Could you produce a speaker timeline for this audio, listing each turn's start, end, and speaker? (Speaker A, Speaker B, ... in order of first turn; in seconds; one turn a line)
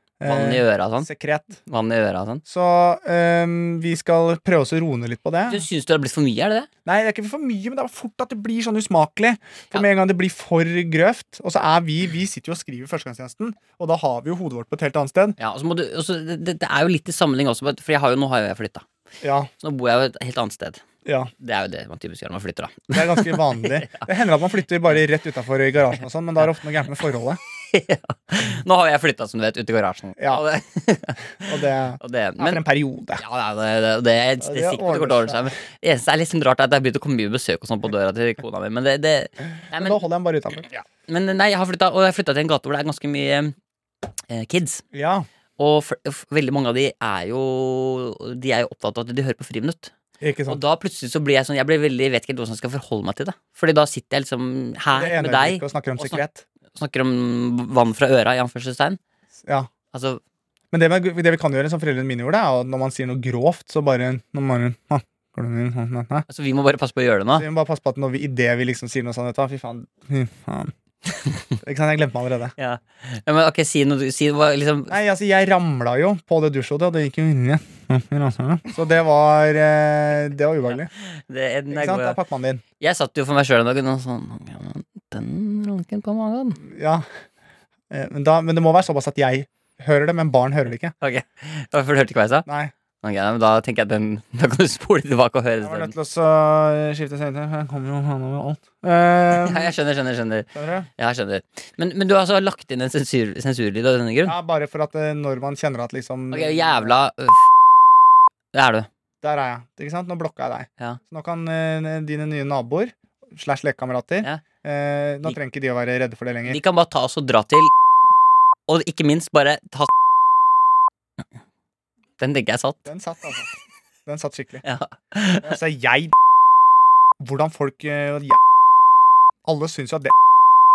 Speaker A: 0.2-1.6
Speaker B: 0.2-1.1
Speaker B: 1.6-2.4
Speaker A: 2.5-5.6
Speaker B: 5.5-6.7
Speaker A: 6.9-15.4
Speaker B: 15.4-18.9
Speaker A: 19.2-19.5
Speaker B: 19.6-20.8
Speaker A: 21.0-21.3
Speaker B: 21.4-24.1
Speaker A: 22.9-27.4
Speaker B: 27.7-32.6
Speaker A: 30.2-30.4
Speaker A: 31.4-33.2
Speaker B: 33.2-40.0
Speaker A: 34.4-35.5
Speaker A: 39.7-40.7
Speaker B: 40.7-43.5
Speaker B: 44.3-44.8
Speaker A: 44.9-45.3
Speaker B: 45.6-49.9
Speaker A: 50.2-50.6
Speaker B: 50.5-56.2
Speaker A: 54.9-56.4
Speaker B: 56.8-59.0
Speaker B: 59.9-60.2
Speaker A: 60.7-66.2
Speaker B: 66.3-67.5
Speaker A: 67.3-70.7
Speaker B: 71.1-71.4
Speaker A: 71.6-72.5
Speaker B: 72.6-75.0
Speaker A: 74.9-80.9
Speaker B: 81.0-82.2
Speaker A: 81.7-82.6
Speaker B: 82.8-86.6
Speaker A: 86.6-87.0
Speaker A: 87.9-90.9
Speaker B: 91.0-92.5
Speaker A: 92.5-92.7
Speaker B: 93.0-95.9
Speaker A: 95.6-99.7
Speaker B: 99.4-104.4
Speaker A: 100.5-100.9
Speaker A: 104.2-107.0
Speaker B: 106.3-107.5
Speaker B: 108.5-108.9
Speaker A: 109.2-116.6
Speaker B: 116.5-117.7
Speaker B: 118.7-119.9
Speaker B: 122.2-122.9
Speaker A: 122.9-123.5
Speaker A: 124.0-124.6
Speaker B: 124.6-125.6
Speaker A: 125.4-126.1
Speaker A: 127.2-128.4
Speaker A: 129.4-130.1